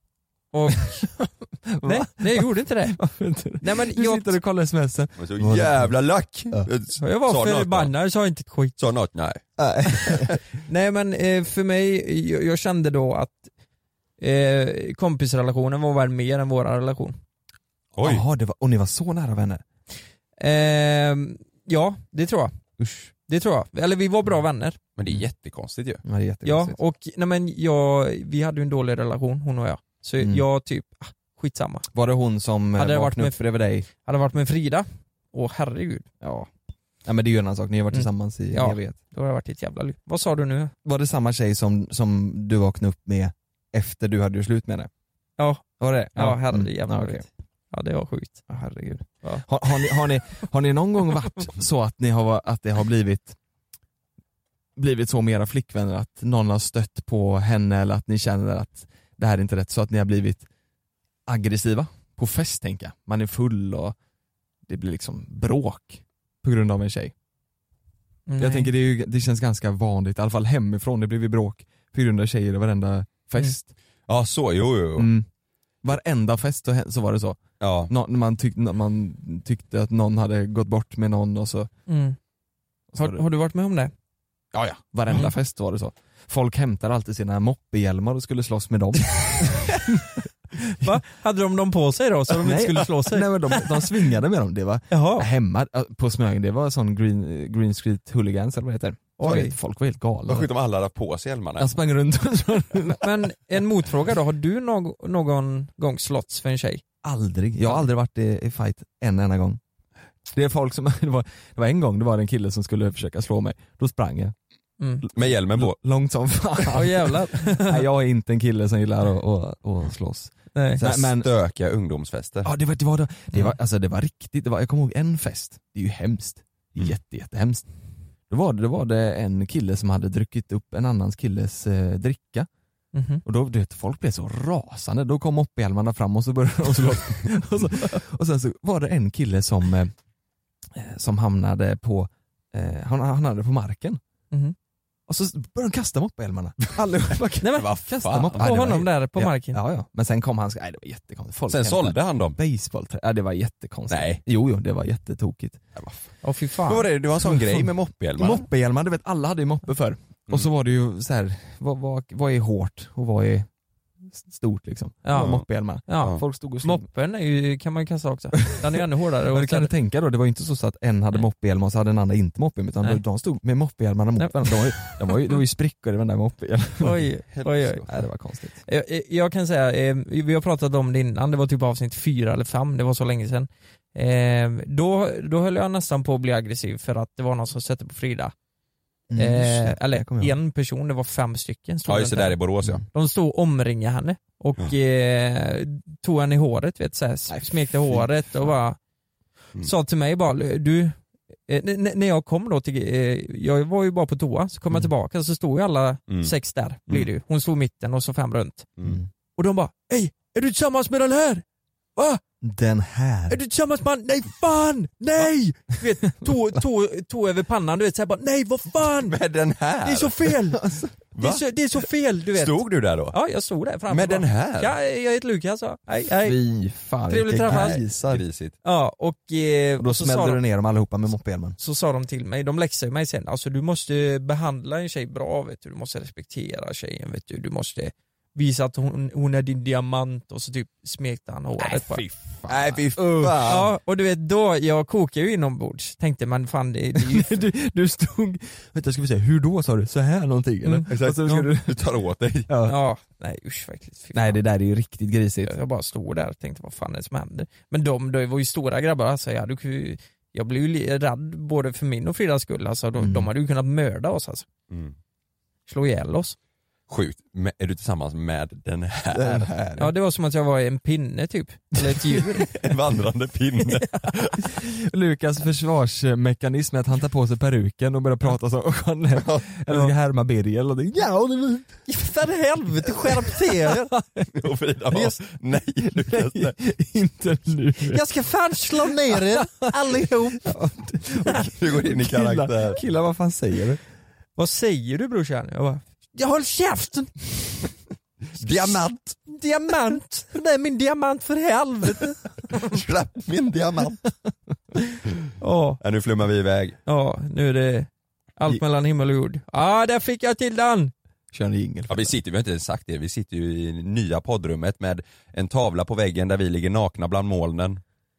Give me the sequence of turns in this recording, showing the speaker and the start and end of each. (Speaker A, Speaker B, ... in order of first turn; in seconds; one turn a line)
Speaker A: 0.5-1.1
Speaker B: 0.7-6.0
Speaker A: 1.8-3.0
Speaker A: 3.6-4.3
Speaker C: 5.2-7.9
Speaker A: 7.0-8.8
Speaker C: 8.8-9.4
Speaker B: 9.6-10.3
Speaker C: 10.1-10.3
Speaker A: 10.7-13.4
Speaker A: 14.2-17.1
Speaker C: 17.9-18.2
Speaker B: 18.0-19.6
Speaker A: 20.4-22.5
Speaker B: 22.8-23.1
Speaker A: 23.3-24.8
Speaker C: 25.0-26.0
Speaker B: 26.0-26.8
Speaker A: 26.4-31.9
Speaker B: 30.2-30.4
Speaker B: 31.9-33.9
Speaker A: 32.8-36.1
Speaker B: 36.2-36.5
Speaker B: 37.0-39.0
Speaker A: 37.9-40.7
Speaker B: 40.8-44.9
Speaker A: 45.4-48.5
Speaker B: 45.8-47.2
Speaker B: 48.5-53.4
Speaker B: 54.8-60.5
Speaker B: 61.3-64.0
Speaker B: 64.7-67.1
Speaker A: 68.3-68.7
Speaker B: 68.4-73.7
Speaker C: 74.1-75.1
Speaker B: 75.0-75.3
Speaker B: 75.8-81.7
Speaker C: 77.6-77.9
Speaker A: 81.9-82.2
Speaker B: 82.9-83.2
Speaker A: 83.0-83.9
Speaker B: 84.5-91.0
Speaker A: 90.8-93.9
Speaker B: 92.3-100.5
Speaker A: 94.9-95.3
Speaker A: 99.2-99.5
Speaker C: 100.2-101.7
Speaker B: 101.6-103.1
Speaker A: 102.9-106.8
Speaker B: 107.0-109.6
Speaker B: 110.3-114.3
Speaker A: 114.8-115.0
Speaker B: 115.0-121.3
Speaker C: 115.1-115.8
Speaker A: 116.7-117.8
Speaker A: 120.5-120.8
Speaker C: 120.8-122.5
Speaker B: 122.4-127.7
Speaker B: 128.3-132.5
Speaker A: 132.9-133.2
Speaker B: 133.2-139.9
Speaker B: 140.7-144.0
Speaker B: 145.1-155.6
Speaker A: 147.4-149.6
Speaker C: 147.6-148.8
Speaker C: 151.5-152.4
Speaker C: 153.9-154.2
Speaker A: 156.2-156.8
Speaker C: 156.6-158.4
Speaker B: 157.2-163.5
Speaker B: 164.1-166.8
Speaker A: 165.0-169.7
Speaker C: 165.1-165.5
Speaker B: 169.3-178.6
Speaker A: 174.2-175.3
Speaker A: 176.8-177.8
Speaker A: 178.6-188.3
Speaker B: 189.1-190.3
Speaker A: 189.2-198.8
Speaker C: 191.9-192.8
Speaker B: 197.3-198.5
Speaker A: 199.6-200.9
Speaker A: 201.5-208.7
Speaker B: 208.8-209.1
Speaker A: 209.3-211.4
Speaker B: 212.4-213.4
Speaker A: 213.3-219.1
Speaker C: 219.0-220.3
Speaker A: 219.8-220.6
Speaker B: 220.5-220.9
Speaker C: 221.1-221.4
Speaker A: 221.2-226.4
Speaker C: 222.3-223.2
Speaker C: 223.9-224.7
Speaker B: 226.2-228.2
Speaker A: 227.1-227.8
Speaker C: 227.3-228.5
Speaker A: 228.6-230.4
Speaker B: 229.8-231.6
Speaker A: 231.6-242.0
Speaker C: 241.7-243.6
Speaker B: 242.4-243.7
Speaker A: 243.4-247.4
Speaker B: 246.9-251.8
Speaker C: 250.9-252.5
Speaker B: 252.5-252.8
Speaker A: 252.6-254.4
Speaker B: 254.1-255.6
Speaker A: 255.4-264.4
Speaker B: 263.0-263.3
Speaker A: 265.7-266.4
Speaker C: 266.9-269.7
Speaker B: 269.1-269.9
Speaker A: 269.8-272.5
Speaker B: 272.1-272.4
Speaker C: 272.5-274.4
Speaker B: 274.4-281.7
Speaker C: 279.1-279.5
Speaker A: 281.9-283.9
Speaker B: 283.0-283.4
Speaker B: 283.9-284.3
Speaker C: 284.3-286.6
Speaker B: 285.8-288.0
Speaker A: 287.9-290.5
Speaker B: 288.7-293.8
Speaker C: 291.5-292.8
Speaker A: 294.4-297.2
Speaker C: 298.4-299.2
Speaker A: 299.3-302.5
Speaker C: 302.5-304.0
Speaker A: 304.8-305.8
Speaker C: 305.8-306.8
Speaker A: 306.9-310.9
Speaker B: 311.3-312.1
Speaker C: 311.9-317.8